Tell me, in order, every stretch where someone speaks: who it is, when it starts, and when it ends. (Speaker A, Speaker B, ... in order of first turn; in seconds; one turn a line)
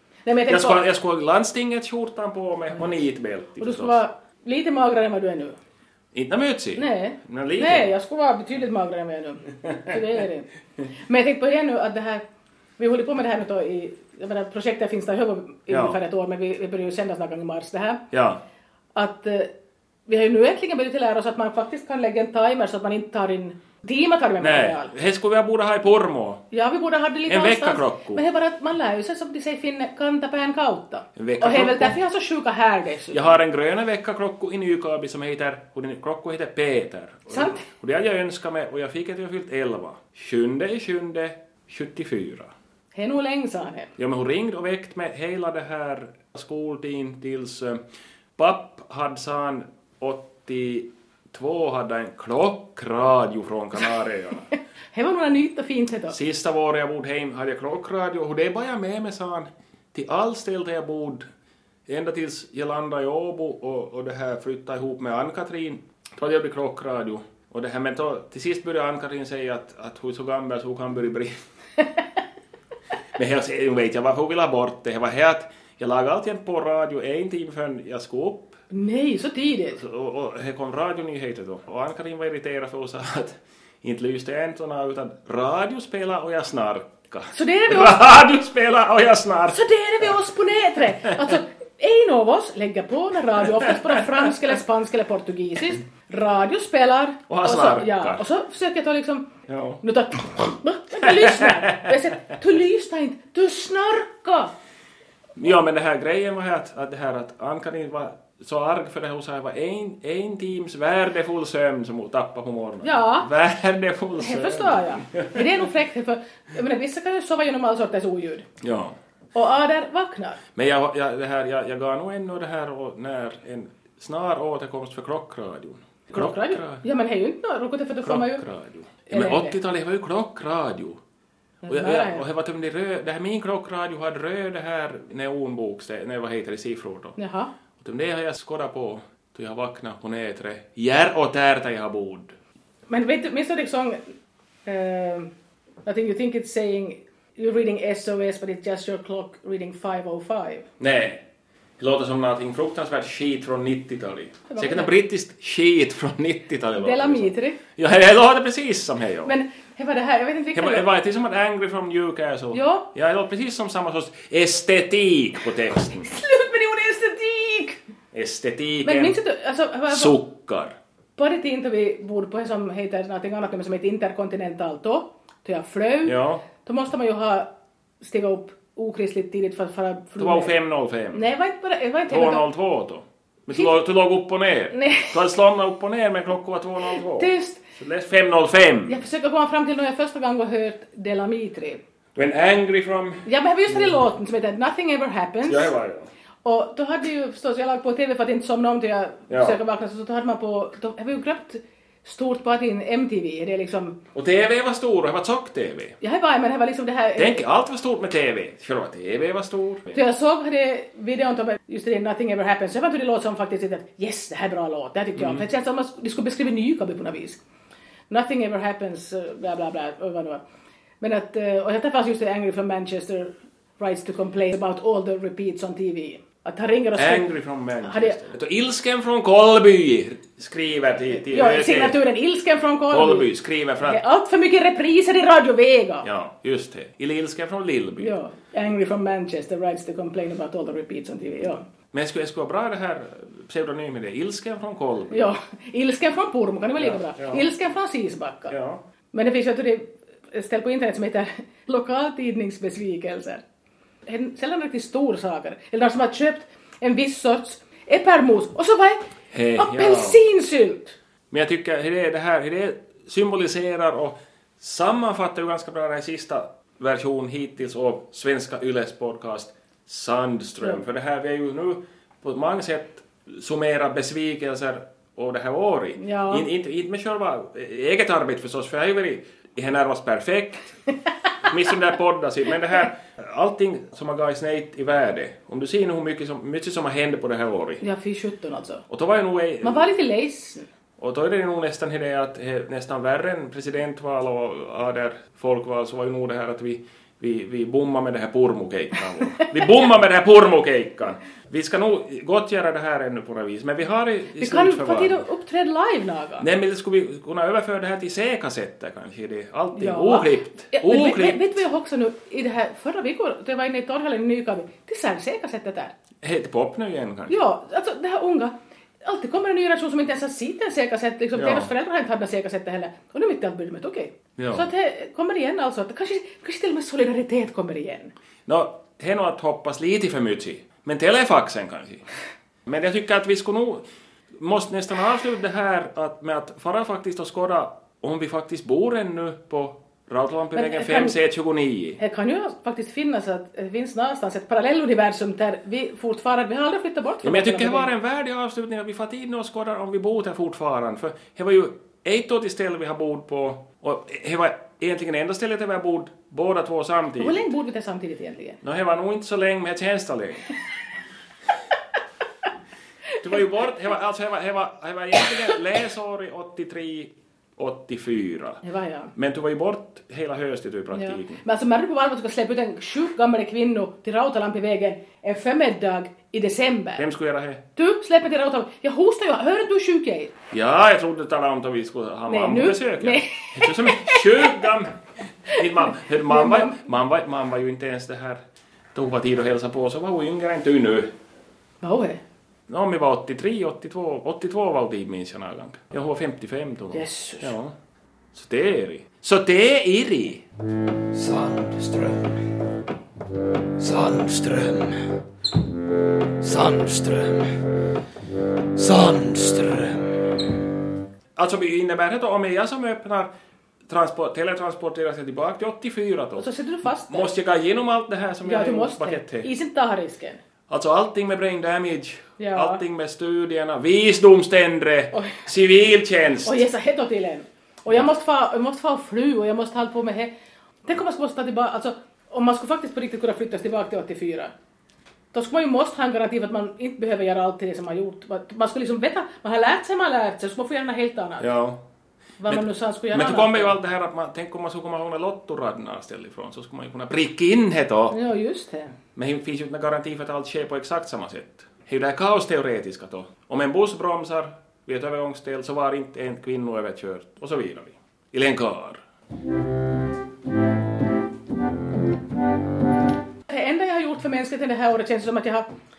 Speaker A: 0.2-0.8
Speaker B: 0.5-4.0
Speaker A: 3.6-5.6
Speaker B: 6.1-7.9
Speaker A: 6.8-12.2
Speaker A: 12.8-18.0
Speaker B: 15.7-16.0
Speaker B: 18.1-18.4
Speaker A: 18.9-19.5
Speaker A: 20.1-24.9
Speaker B: 24.4-26.4
Speaker A: 26.5-33.3
Speaker B: 27.3-28.2
Speaker B: 31.1-31.9
Speaker B: 33.1-42.5
Speaker A: 37.3-37.6
Speaker A: 42.9-43.9
Speaker B: 44.0-47.8
Speaker B: 48.4-54.5
Speaker A: 54.9-56.1
Speaker B: 56.1-61.3
Speaker B: 61.9-71.4
Speaker B: 73.2-78.6
Speaker A: 78.7-79.8
Speaker B: 79.8-89.6
Speaker A: 87.3-88.0
Speaker A: 89.5-99.3
Speaker B: 97.3-98.2
Speaker B: 99.5-99.8
Speaker A: 99.8-104.5
Speaker B: 101.0-101.9
Speaker B: 105.3-115.6
Speaker A: 112.8-113.3
Speaker A: 114.2-118.5
Speaker B: 118.6-119.0
Speaker A: 119.3-120.4
Speaker B: 120.5-126.8
Speaker A: 126.1-128.5
Speaker B: 128.0-131.0
Speaker A: 129.1-129.5
Speaker A: 131.6-132.2
Speaker B: 131.7-137.2
Speaker A: 137.2-137.5
Speaker B: 137.8-142.3
Speaker A: 142.9-144.1
Speaker A: 144.7-145.3
Speaker A: 145.8-150.7
Speaker B: 150.8-151.2
Speaker B: 151.8-159.3
Speaker A: 154.5-154.9
Speaker A: 156.8-157.6
Speaker A: 159.2-160.9
Speaker B: 160.5-166.1
Speaker A: 162.5-162.9
Speaker A: 166.0-167.8
Speaker B: 168.1-169.2
Speaker A: 168.8-170.2
Speaker B: 169.9-170.7
Speaker A: 171.2-177.5
Speaker B: 176.0-176.4
Speaker A: 178.0-180.5
Speaker B: 180.2-181.2
Speaker A: 181.1-182.4
Speaker B: 182.1-189.0
Speaker A: 184.7-185.1
Speaker A: 186.9-187.6
Speaker A: 188.9-191.8
Speaker B: 192.1-193.9
Speaker A: 193.2-195.7
Speaker B: 195.5-196.1
Speaker A: 196.4-204.0
Speaker B: 199.3-199.6
Speaker B: 204.1-206.0
Speaker A: 206.0-207.4
Speaker B: 207.2-210.0
Speaker A: 209.9-217.4
Speaker B: 215.2-215.4
Speaker A: 218.1-220.4
Speaker A: 221.0-227.2
Speaker B: 226.9-232.0
Speaker A: 227.8-228.2
Speaker A: 231.1-233.3
Speaker B: 232.9-234.0
Speaker A: 233.8-236.1
Speaker B: 236.0-238.2
Speaker A: 238.0-241.6
Speaker B: 241.9-245.3
Speaker A: 245.1-248.5
Speaker B: 246.8-247.5
Speaker B: 248.5-248.8
Speaker A: 249.1-253.4
Speaker A: 254.1-260.9
Speaker B: 259.3-260.2
Speaker B: 261.3-280.8
Speaker A: 276.0-276.4
Speaker B: 281.4-287.8
Speaker A: 287.8-288.8
Speaker B: 288.9-289.9
Speaker A: 289.6-290.7
Speaker B: 291.0-305.2
Speaker A: 304.4-306.4
Speaker B: 306.4-311.6
Speaker A: 309.7-315.9
Speaker B: 316.2-317.4
Speaker A: 317.3-328.1
Speaker B: 321.3-321.7
Speaker B: 324.4-324.7
Speaker B: 328.5-332.1
Speaker B: 332.6-333.8
Speaker B: 334.4-342.0
Speaker A: 340.5-341.1
Speaker A: 342.0-347.9
Speaker B: 347.2-357.4
Speaker A: 357.2-358.6
Speaker B: 358.6-360.5
Speaker B: 363.2-368.6
Speaker A: 368.6-369.1
Speaker B: 369.1-371.4
Speaker A: 370.9-377.0
Speaker B: 377.0-377.6
Speaker A: 377.8-380.3
Speaker B: 380.5-388.4
Speaker A: 382.3-384.6
Speaker A: 385.5-386.8
Speaker B: 388.9-391.1
Speaker A: 391.8-392.2
Speaker B: 392.7-397.7
Speaker A: 396.9-397.5
Speaker B: 398.3-400.4
Speaker C: 401.1-402.5
Speaker C: 403.8-405.1
Speaker C: 406.4-407.6
Speaker C: 408.7-410.7
Speaker B: 411.4-413.3
Speaker B: 413.9-416.5
Speaker A: 416.4-417.3
Speaker B: 417.1-419.5
Speaker A: 418.4-420.4
Speaker B: 420.7-426.6
Speaker A: 422.4-422.8
Speaker A: 425.1-425.4
Speaker A: 426.4-430.3
Speaker A: 430.8-434.5
Speaker A: 435.3-441.4
Speaker B: 441.4-441.8
Speaker A: 442.4-443.7
Speaker B: 442.5-448.2
Speaker A: 448.1-448.9
Speaker B: 449.1-459.0
Speaker A: 463.5-465.7